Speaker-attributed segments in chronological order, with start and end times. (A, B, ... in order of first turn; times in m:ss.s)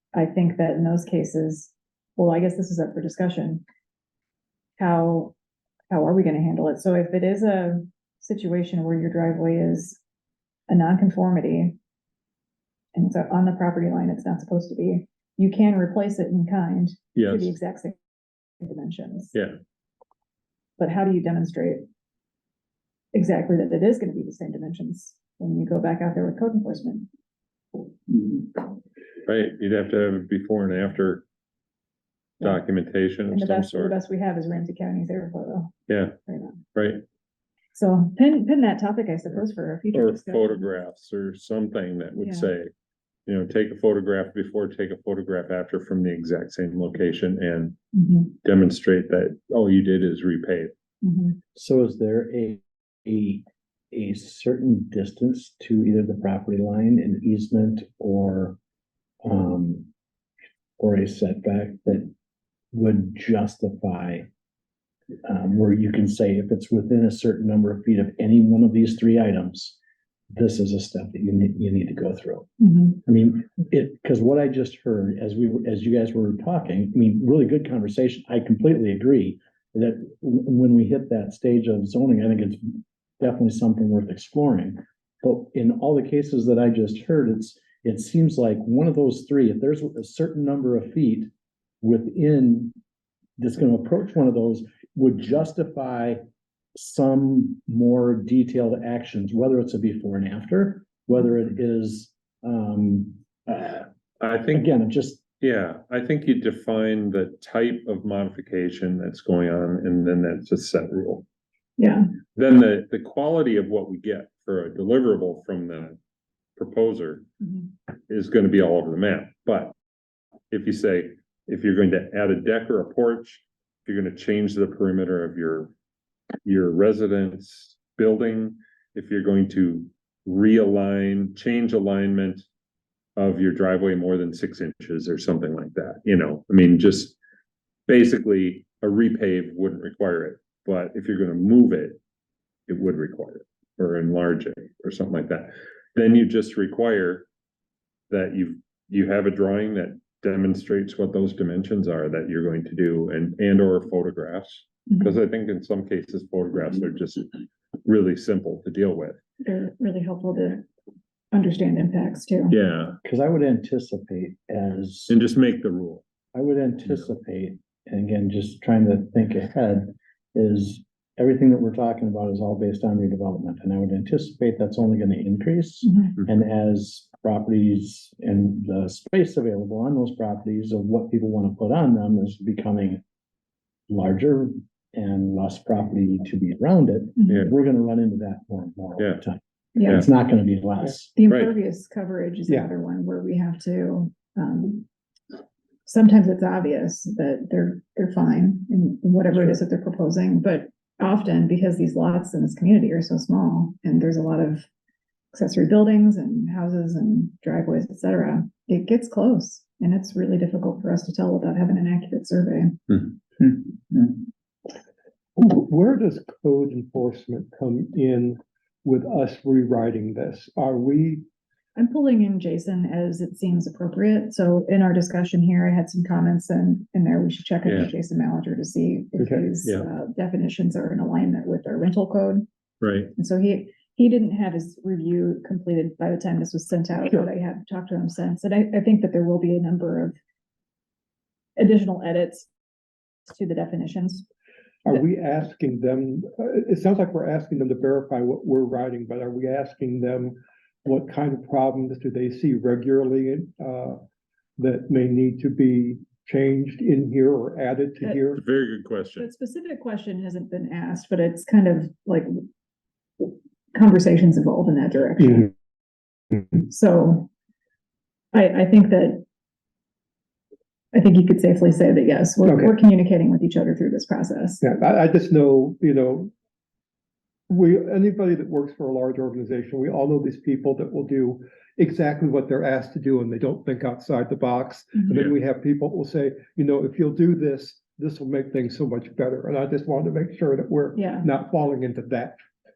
0:00.1-0:03.6 A
0:04.8-0:05.3 A
0:05.9-0:10.0 A
0:10.7-0:11.8 A
0:12.9-0:18.0 A
0:17.2-0:17.5 B
0:18.6-0:19.3 A
0:20.8-0:21.8 A
0:23.1-0:27.1 A
0:29.2-0:31.2 B
0:32.4-0:33.9 B
0:33.3-0:36.6 A
0:35.9-0:36.2 B
0:36.7-0:37.0 B
0:37.7-0:40.8 A
0:39.9-0:42.7 B
0:42.2-0:42.5 A
0:43.2-0:47.8 B
0:47.9-0:48.4 A
0:48.4-0:50.7 B
0:51.0-0:51.4 A
0:51.5-0:58.6 C
0:59.2-0:59.9 C
1:00.8-1:02.1 C
1:02.7-1:04.3 C
1:05.2-1:09.8 C
1:10.3-1:31.3 C
1:12.6-1:13.0 A
1:31.8-1:32.8 C
1:33.4-1:36.2 C
1:36.7-1:43.9 C
1:44.2-1:44.7 B
1:44.5-1:45.2 C
1:45.4-1:51.2 B
1:51.8-1:52.1 A
1:52.4-1:56.0 B
1:56.6-1:57.2 B
1:57.4-1:57.7 A
1:58.1-1:59.7 B
2:00.5-2:05.7 B
2:06.4-2:12.4 B
2:13.2-2:17.2 B
2:17.9-2:22.0 B
2:22.7-2:27.3 B
2:28.1-2:37.3 B
2:34.9-2:35.2 A
2:37.8-2:39.2 B
2:39.4-2:40.6 A
2:41.3-2:42.6 A
2:42.5-2:43.0 B
2:43.0-2:45.2 C
2:45.1-2:46.0 B
2:46.3-3:03.0 C
3:03.9-3:11.1 C
3:07.2-3:07.5 A
3:09.7-3:10.0 A
3:11.1-3:14.9 A
3:11.3-3:11.5 B
3:15.8-3:24.6 A
3:25.3-3:33.0 A
3:35.4-3:41.2 D
3:41.8-3:52.4 A
3:47.6-3:47.9 B
3:49.2-3:49.5 D
3:52.8-3:53.1 B
3:53.2-4:00.2 A
4:01.6-4:02.5 A
4:03.2-4:04.2 A
4:04.8-4:14.0 D
4:14.6-4:18.4 D
4:18.3-4:19.3 B
4:19.2-4:22.4 A
4:23.2-4:25.5 A
4:25.2-4:25.4 D
4:26.7-4:27.3 A
4:28.3-4:29.2 A
4:30.9-4:34.6 A
4:32.4-4:32.7 D
4:34.6-4:36.3 D
4:37.5-4:52.4 D
4:51.0-4:51.3 A